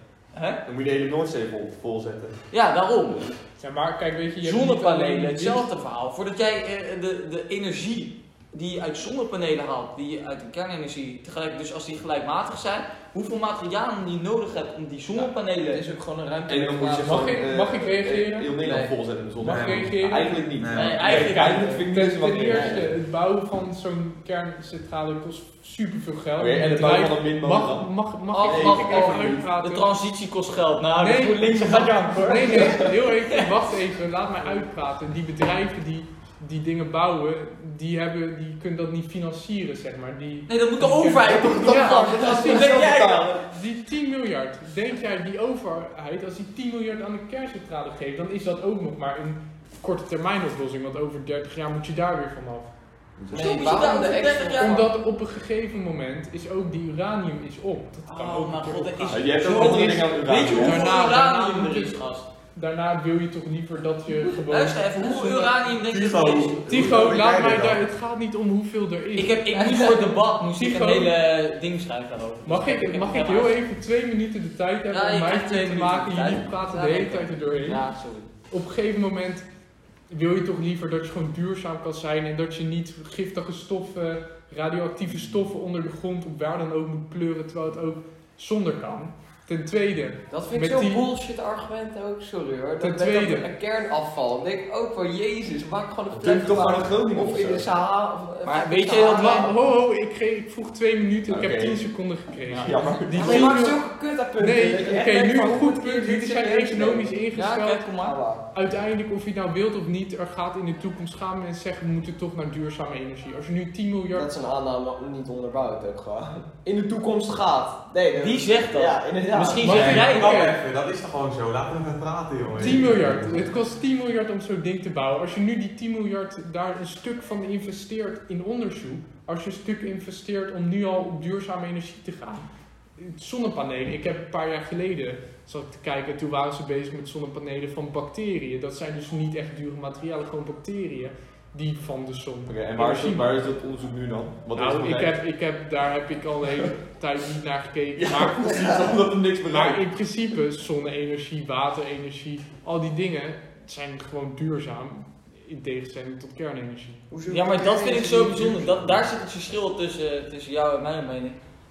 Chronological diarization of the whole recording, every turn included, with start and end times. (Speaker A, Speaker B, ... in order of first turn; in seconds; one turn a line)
Speaker A: 0.3-0.6
Speaker B: 0.7-2.4
Speaker A: 2.5-3.3
Speaker C: 3.6-5.7
Speaker A: 4.4-15.8
Speaker D: 15.2-17.4
Speaker B: 16.5-22.9
Speaker C: 17.0-18.5
Speaker D: 18.6-18.9
Speaker C: 19.4-29.9
Speaker E: 19.4-19.9
Speaker E: 20.6-21.1
Speaker A: 20.7-21.9
Speaker B: 26.4-27.9
Speaker A: 28.3-33.5
Speaker B: 28.4-29.5
Speaker C: 31.0-42.9
Speaker A: 40.5-43.4
Speaker B: 41.4-43.4
Speaker C: 43.4-52.7
Speaker B: 53.2-53.8
Speaker D: 53.3-54.8
Speaker A: 53.3-54.9
Speaker C: 54.6-62.0
Speaker A: 58.1-62.3
Speaker B: 59.1-60.8
Speaker C: 62.5-65.0
Speaker A: 64.5-66.8
Speaker D: 65.0-65.5
Speaker E: 65.8-67.8
Speaker C: 66.7-69.4
Speaker A: 69.2-73.6
Speaker D: 69.5-70.1
Speaker C: 70.6-71.1
Speaker C: 72.5-77.8
Speaker A: 74.9-78.3
Speaker C: 78.5-79.5
Speaker C: 80.1-91.1
Speaker D: 90.3-99.6
Speaker C: 92.8-93.5
Speaker B: 96.1-97.7
Speaker A: 98.4-99.5
Speaker C: 99.0-103.8
Speaker B: 101.3-101.8
Speaker A: 102.5-103.0
Speaker B: 102.5-103.6
Speaker D: 103.1-107.1
Speaker C: 104.4-107.9
Speaker A: 107.3-108.2
Speaker D: 108.0-108.4
Speaker C: 108.5-114.3
Speaker D: 114.1-120.0
Speaker A: 118.2-120.5
Speaker C: 119.6-120.6
Speaker E: 119.7-123.4
Speaker C: 122.6-143.3
Speaker B: 142.5-145.1
Speaker C: 144.6-148.9
Speaker B: 148.0-149.8
Speaker C: 149.4-157.0
Speaker D: 157.1-158.9
Speaker A: 157.3-161.4